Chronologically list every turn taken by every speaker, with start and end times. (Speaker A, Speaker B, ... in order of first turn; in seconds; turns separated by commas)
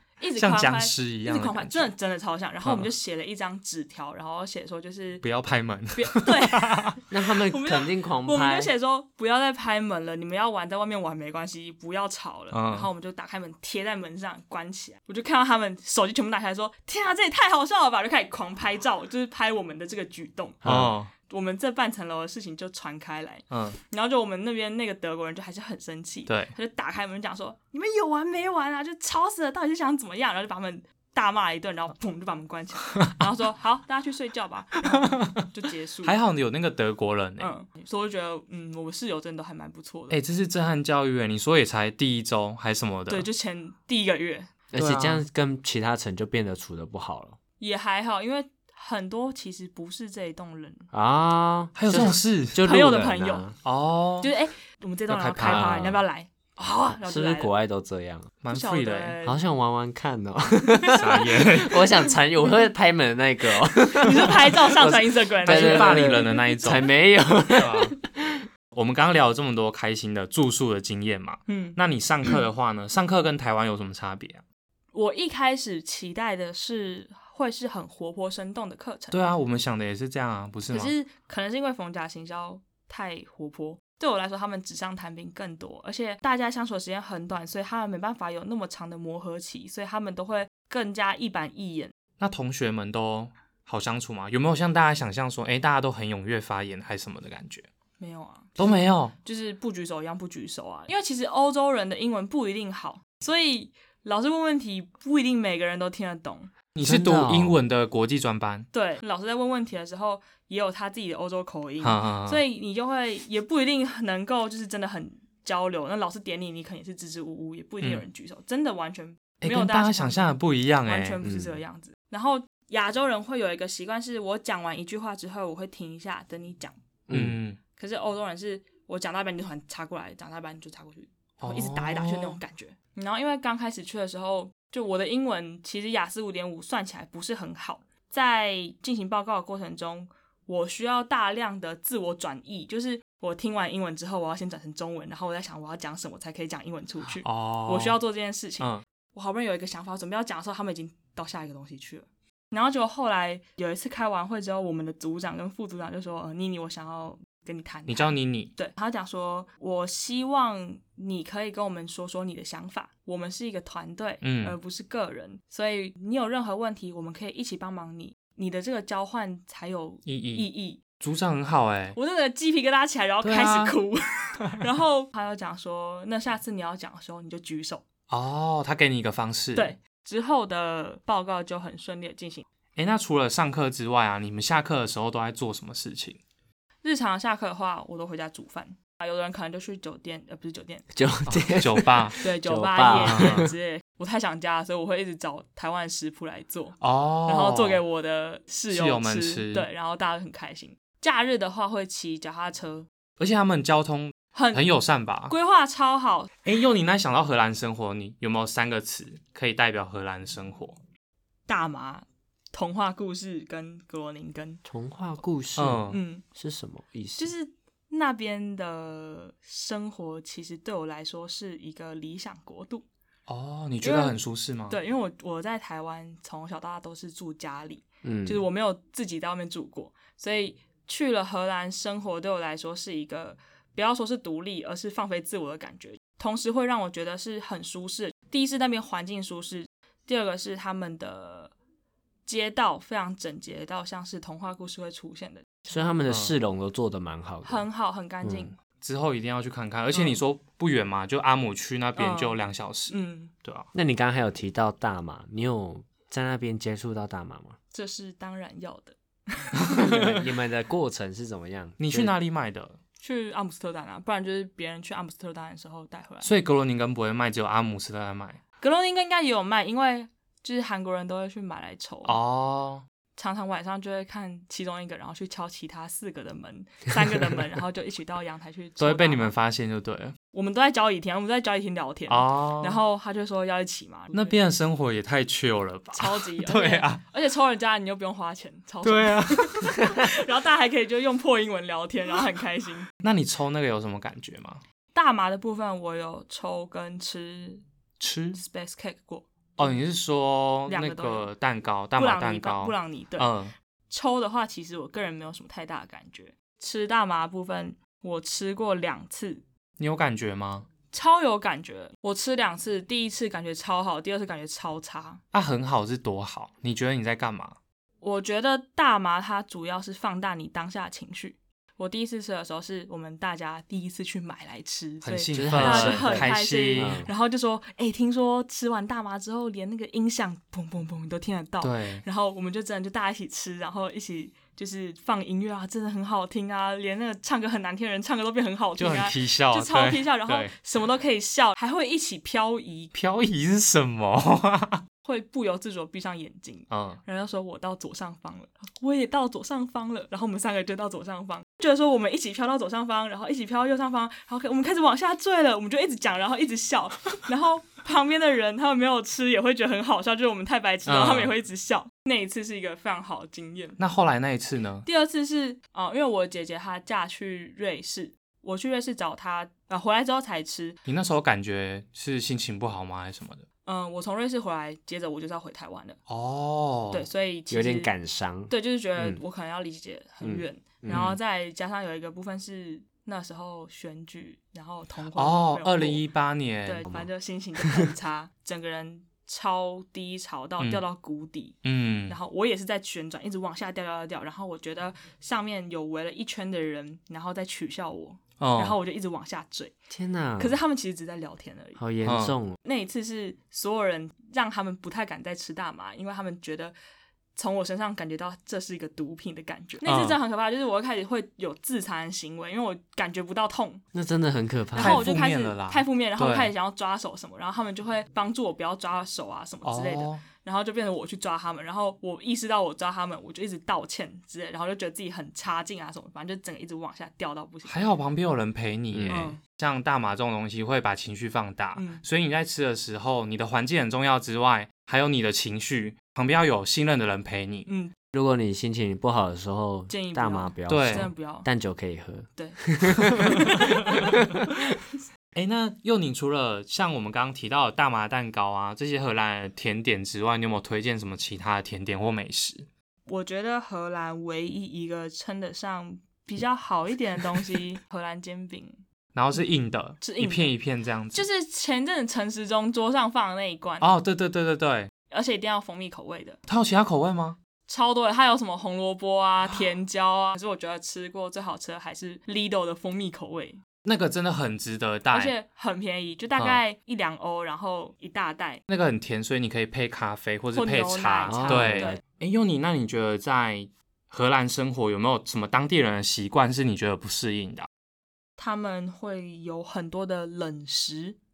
Speaker A: 0.2-5.2, Speaker B: 0.3-1.9, Speaker B: 5.2-7.0, Speaker A: 5.9-20.6, Speaker C: 7.1-8.7, Speaker B: 12.5-12.9, Speaker C: 20.6-20.9, Speaker B: 20.6-21.1, Speaker A: 21.2-36.2, Speaker B: 23.5-23.8, Speaker B: 26.3-26.5, Speaker B: 34.9-35.4, Speaker B: 36.0-37.5, Speaker A: 37.4-40.2, Speaker B: 40.1-43.3, Speaker A: 43.1-44.5, Speaker C: 44.7-47.4, Speaker B: 44.8-45.2, Speaker A: 47.6-50.8, Speaker C: 50.9-53.5, Speaker B: 51.8-52.6, Speaker A: 52.6-53.5, Speaker B: 53.6-54.3, Speaker A: 54.2-57.5, Speaker B: 55.1-56.0, Speaker C: 55.4-56.0, Speaker C: 56.9-58.3, Speaker B: 58.4-59.1, Speaker A: 58.5-59.4, Speaker C: 59.2-68.5, Speaker B: 60.9-62.0, Speaker A: 63.9-66.5, Speaker B: 65.4-66.9, Speaker B: 67.5-67.9, Speaker B: 68.7-74.4, Speaker A: 71.5-71.8, Speaker A: 74.9-79.2, Speaker B: 79.1-80.9, Speaker A: 80.7-91.9, Speaker B: 92.2-97.7, Speaker A: 98.0-106.5, Speaker B: 98.6-99.1, Speaker B: 106.7-108.7, Speaker C: 106.8-107.6, Speaker A: 108.7-120.3, Speaker B: 111.8-112.4, Speaker B: 119.4-121.2, Speaker A: 120.8-126.7, Speaker C: 121.2-121.5, Speaker C: 127.1-127.4, Speaker B: 127.1-127.6, Speaker A: 127.7-170.8, Speaker B: 131.4-132.4, Speaker B: 147.2-148.0, Speaker B: 157.9-158.5, Speaker B: 164.2-164.6, Speaker B: 170.1-170.5, Speaker B: 171.0-172.0, Speaker A: 171.9-177.8, Speaker B: 173.2-173.8, Speaker B: 178.1-179.7, Speaker A: 179.5-182.4, Speaker B: 182.8-186.2, Speaker A: 186.8-190.8, Speaker C: 190.9-193.5, Speaker B: 191.3-192.2, Speaker A: 192.2-202.9, Speaker B: 192.9-193.5, Speaker B: 196.8-197.8, Speaker B: 198.7-199.7, Speaker B: 203.2-205.3, Speaker A: 204.3-204.7, Speaker A: 205.3-206.3, Speaker B: 206.4-210.8, Speaker A: 211.5-214.6, Speaker C: 214.6-217.3, Speaker B: 215.6-216.0, Speaker A: 215.9-216.2, Speaker A: 217.2-222.8, Speaker B: 223.3-224.8, Speaker A: 223.8-224.2, Speaker A: 224.7-241.5, Speaker C: 228.0-228.4, Speaker A: 242.2-245.9, Speaker C: 245.7-247.7, Speaker B: 246.1-246.3, Speaker A: 247.4-248.5, Speaker C: 248.2-248.5, Speaker B: 248.8-253.7, Speaker A: 249.9-250.2, Speaker A: 251.9-253.3, Speaker C: 253.7-257.6, Speaker A: 257.7-259.9, Speaker B: 259.7-260.2, Speaker C: 259.7-262.1, Speaker B: 261.8-262.8, Speaker A: 263.0-266.3, Speaker B: 266.2-268.4, Speaker A: 268.6-272.2, Speaker B: 272.0-272.8, Speaker A: 273.1-279.3, Speaker B: 278.8-280.1, Speaker A: 280.3-284.4, Speaker B: 282.1-282.8, Speaker B: 284.1-287.0, Speaker A: 285.9-292.9, Speaker B: 288.8-289.9, Speaker B: 293.0-294.6, Speaker A: 294.9-297.6, Speaker B: 298.0-298.4, Speaker A: 298.3-299.7, Speaker B: 299.6-303.5, Speaker A: 300.7-301.3, Speaker A: 301.9-303.3, Speaker A: 303.9-309.4, Speaker B: 309.8-310.7, Speaker A: 310.9-315.2, Speaker B: 315.3-317.6, Speaker A: 318.0-342.9, Speaker B: 325.0-327.1, Speaker C: 325.3-327.1, Speaker B: 331.6-332.0, Speaker B: 338.8-340.5, Speaker B: 342.9-344.8, Speaker A: 345.0-363.8, Speaker B: 346.7-347.0, Speaker B: 360.9-361.3, Speaker B: 363.8-364.9, Speaker A: 364.8-370.8, Speaker B: 370.9-373.4, Speaker A: 373.6-376.0, Speaker B: 376.1-377.1, Speaker A: 376.9-377.9, Speaker C: 377.5-379.2, Speaker A: 378.5-386.0, Speaker C: 380.2-381.1, Speaker B: 380.9-381.2, Speaker B: 385.1-386.9, Speaker A: 386.6-399.7, Speaker B: 391.6-392.1, Speaker B: 398.4-398.8, Speaker C: 399.9-400.6, Speaker A: 400.4-401.8, Speaker C: 401.8-402.6, Speaker B: 402.0-402.3, Speaker A: 402.6-406.7, Speaker A: 407.4-413.8, Speaker B: 409.8-410.2, Speaker C: 413.9-415.2, Speaker A: 414.7-427.8, Speaker B: 414.8-416.5, Speaker B: 419.6-420.2, Speaker B: 427.7-437.7, Speaker C: 428.9-429.3, Speaker A: 429.1-429.4, Speaker A: 431.8-432.0, Speaker A: 437.6-437.9, Speaker C: 438.1-444.5, Speaker A: 439.9-441.5, Speaker B: 440.7-441.1, Speaker A: 442.4-444.2, Speaker B: 445.3-452.7, Speaker A: 453.1-458.7, Speaker B: 459.1-461.2, Speaker A: 460.0-460.5, Speaker A: 461.1-463.9, Speaker B: 463.8-464.9, Speaker A: 465.1-466.4, Speaker B: 466.5-467.4, Speaker A: 467.7-473.6, Speaker B: 473.8-475.3, Speaker A: 475.1-478.6, Speaker B: 478.7-487.7, Speaker A: 480.5-482.0, Speaker C: 481.3-482.0, Speaker A: 488.4-491.2